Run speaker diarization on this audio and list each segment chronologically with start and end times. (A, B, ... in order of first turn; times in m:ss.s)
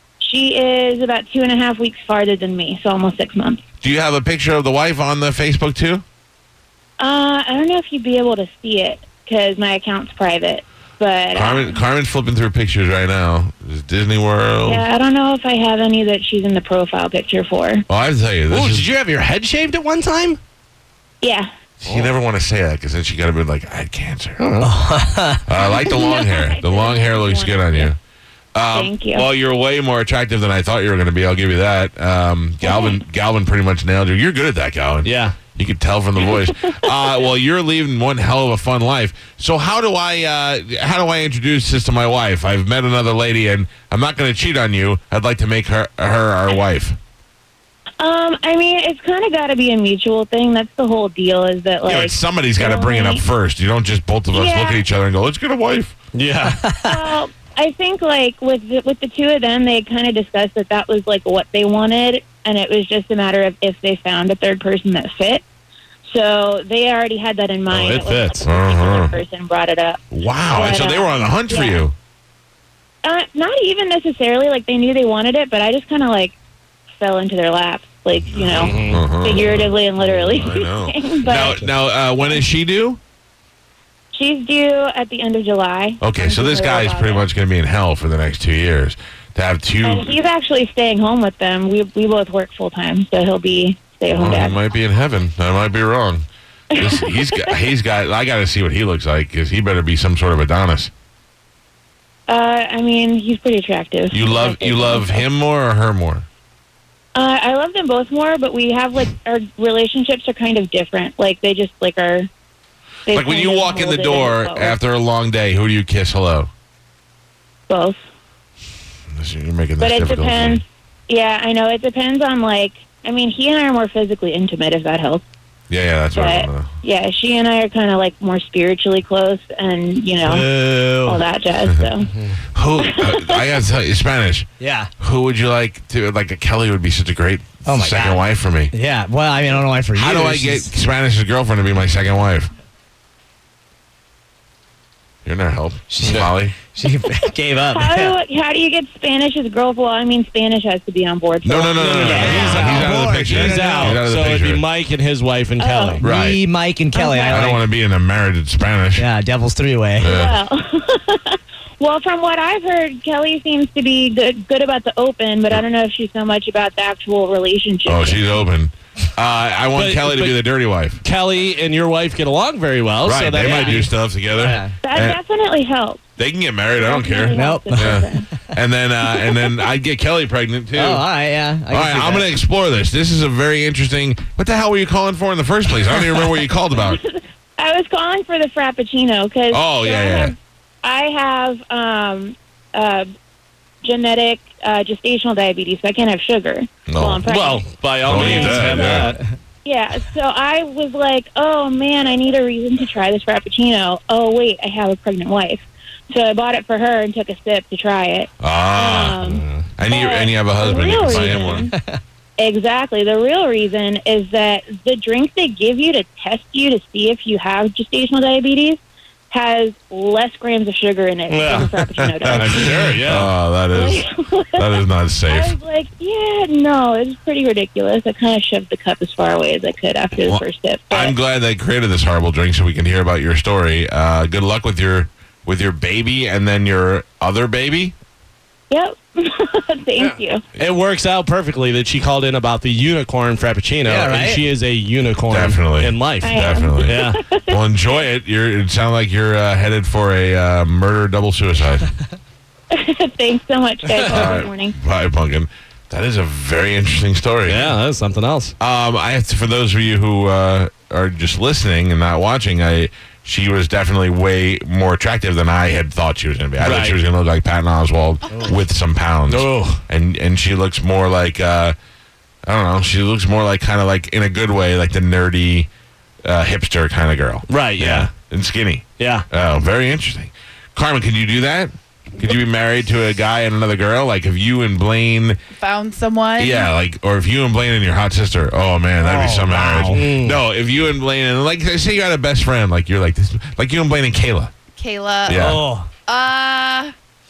0:00.2-0:03.6 A
0:03.8-0:06.0 B
0:07.0-0:11.8 A
0:11.3-0:14.8 B
0:14.6-0:17.8 A
0:17.9-0:18.9 B
0:18.5-0:20.4 C
0:21.2-0:21.5 A
0:21.8-0:24.5 B
0:24.4-0:24.7 C
0:24.6-0:25.4 D
0:25.5-0:28.0 B
0:25.8-0:27.9 A
0:28.5-0:47.0 B
0:28.7-0:29.3 A
0:32.6-0:33.0 A
0:35.0-0:35.4 C
0:36.2-0:37.0 A
0:48.0-0:53.2 A
0:51.8-0:55.9 B
0:54.3-0:54.8 A
0:56.1-0:56.6 C
0:56.8-1:05.4 A
1:06.0-1:11.9 A
1:07.7-1:08.4 C
1:08.4-1:09.2 B
1:10.1-1:11.9 B
1:13.0-1:16.3 A
1:17.0-1:21.7 A
1:18.3-1:23.0 B
1:18.5-1:19.1 C
1:24.1-1:27.3 A
1:26.0-1:30.1 B
1:29.8-1:34.6 A
1:34.1-1:40.9 B
1:36.7-1:37.6 A
1:42.3-1:45.2 A
1:44.1-1:46.2 B
1:47.1-1:52.3 A
1:53.0-1:54.8 A
1:53.1-1:56.5 B
1:57.7-1:58.0 A
1:59.1-2:00.6 B
1:59.8-2:05.2 A
2:05.7-2:06.7 B
2:06.1-2:10.5 A
2:10.2-2:11.2 D
2:11.0-2:12.1 A
2:12.1-2:12.4 C
2:12.5-2:14.5 B
2:12.8-2:13.4 A
2:14.6-2:14.9 D
2:15.0-2:18.7 B
2:17.6-2:18.2 D
2:18.7-2:20.7 D
2:20.0-2:22.5 B
2:25.2-2:26.6 B
2:25.9-2:28.2 D
2:26.1-2:26.3 C
2:27.7-2:32.7 A
2:31.4-2:34.6 B
2:31.8-2:36.0 C
2:32.0-2:33.9 D
2:35.6-2:36.0 A
2:36.0-2:36.4 B
2:36.0-2:37.6 D
2:36.9-2:37.6 A
2:37.3-2:39.0 B
2:39.0-2:40.2 D
2:40.0-2:40.4 B
2:40.0-2:48.2 A
2:47.8-2:51.0 B
2:49.7-2:50.4 C
2:51.0-2:53.9 C
2:53.0-2:55.2 B
2:53.4-2:53.8 A
2:54.4-2:54.7 D
2:54.8-2:56.0 A
2:56.2-3:01.0 B
2:56.8-2:58.3 A
2:57.3-2:58.0 D
3:00.7-3:02.2 D
3:01.7-3:07.0 B
3:06.7-3:13.1 A
3:09.5-3:10.3 B
3:13.8-3:19.0 A
3:16.9-3:17.2 B
3:17.2-3:19.2 C
3:18.0-3:19.1 B
3:19.6-3:31.7 A
3:28.4-3:29.2 B
3:29.2-3:29.7 C
3:29.8-3:31.7 B
3:32.4-3:42.7 A
3:41.3-3:41.7 C
3:41.5-3:45.5 B
3:42.3-3:43.3 C
3:43.7-3:44.6 A
3:45.3-3:51.2 A
3:50.2-3:57.9 B
3:58.7-4:00.4 A
4:00.0-4:07.2 C
4:03.8-4:04.4 D
4:05.3-4:11.9 B
4:06.2-4:07.9 A
4:12.7-4:14.7 A
4:13.9-4:14.3 C
4:14.1-4:17.7 B
4:17.4-4:18.5 C
4:18.6-4:31.8 B
4:26.6-4:27.0 C
4:29.3-4:29.8 C
4:32.4-4:35.7 B
4:36.2-4:45.4 B
4:37.5-4:38.1 C
4:39.0-4:39.2 C
4:45.6-4:46.7 E
4:46.4-4:54.5 B
4:49.0-4:50.0 D
4:49.9-4:50.4 C
4:54.8-4:55.5 E
4:55.3-4:55.6 B
4:55.3-4:55.9 D
4:56.1-4:56.9 E